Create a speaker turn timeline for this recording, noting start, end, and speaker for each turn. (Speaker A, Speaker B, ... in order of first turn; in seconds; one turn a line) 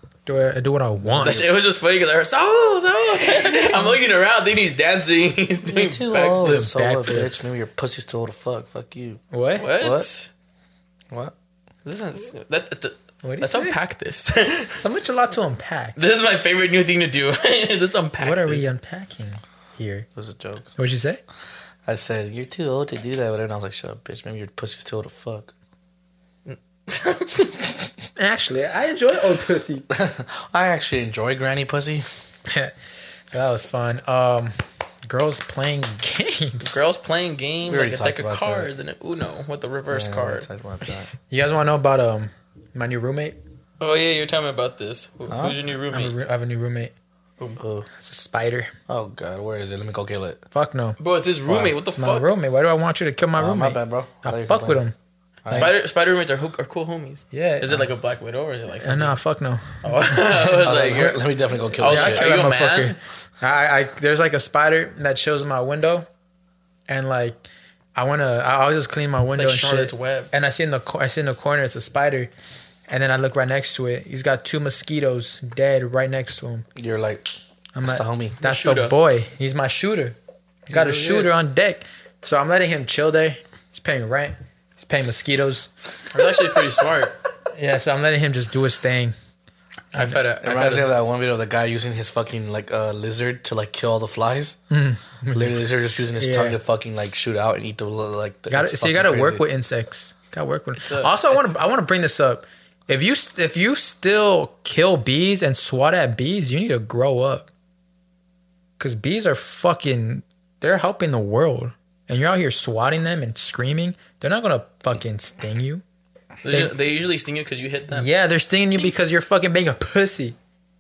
Speaker A: 0.3-1.4
Speaker B: 1.2-6.6
Speaker A: 3.4-4.0
Speaker C: 5.7-9.2
Speaker A: 6.4-7.5
Speaker A: 9.3-9.7
Speaker B: 9.6-10.3
Speaker C: 9.8-10.1
Speaker B: 11.8-14.8
Speaker A: 13.2-13.8
Speaker A: 14.8-16.0
Speaker B: 15.9-18.7
Speaker A: 18.2-20.1
Speaker C: 20.2-20.7
Speaker A: 20.8-21.2
Speaker C: 21.9-25.5
Speaker B: 26.4-27.5
Speaker A: 28.2-29.9
Speaker C: 29.9-32.0
Speaker A: 32.5-32.7
Speaker A: 33.3-36.8
Speaker B: 36.6-40.5
Speaker C: 37.7-38.7
Speaker C: 39.9-41.1
Speaker A: 41.3-43.4
Speaker B: 43.8-46.1
Speaker C: 45.3-45.6
Speaker A: 45.9-46.9
Speaker C: 47.6-47.9
Speaker A: 48.0-48.7
Speaker C: 48.9-50.4
Speaker A: 50.5-51.0
Speaker B: 51.0-52.3
Speaker A: 52.0-55.0
Speaker C: 53.4-54.8
Speaker C: 55.5-55.7
Speaker B: 55.5-59.2
Speaker A: 57.3-57.9
Speaker A: 58.8-61.1
Speaker B: 59.8-61.2
Speaker C: 60.6-62.2
Speaker B: 61.8-63.0
Speaker A: 61.8-66.1
Speaker A: 66.9-67.5
Speaker A: 68.0-72.3
Speaker B: 69.3-70.3
Speaker A: 72.9-76.7
Speaker C: 76.8-77.3
Speaker A: 77.8-80.2
Speaker C: 77.8-78.4
Speaker B: 78.4-79.0
Speaker A: 80.7-85.7
Speaker C: 80.7-81.3
Speaker B: 86.1-87.2
Speaker A: 87.5-89.1
Speaker A: 89.9-90.2
Speaker B: 89.9-90.9
Speaker C: 90.4-94.6
Speaker A: 94.7-95.6
Speaker C: 95.3-99.4
Speaker A: 96.2-96.6
Speaker A: 98.5-107.5
Speaker B: 100.8-101.5
Speaker A: 108.8-115.8
Speaker B: 116.4-118.1
Speaker A: 117.9-120.4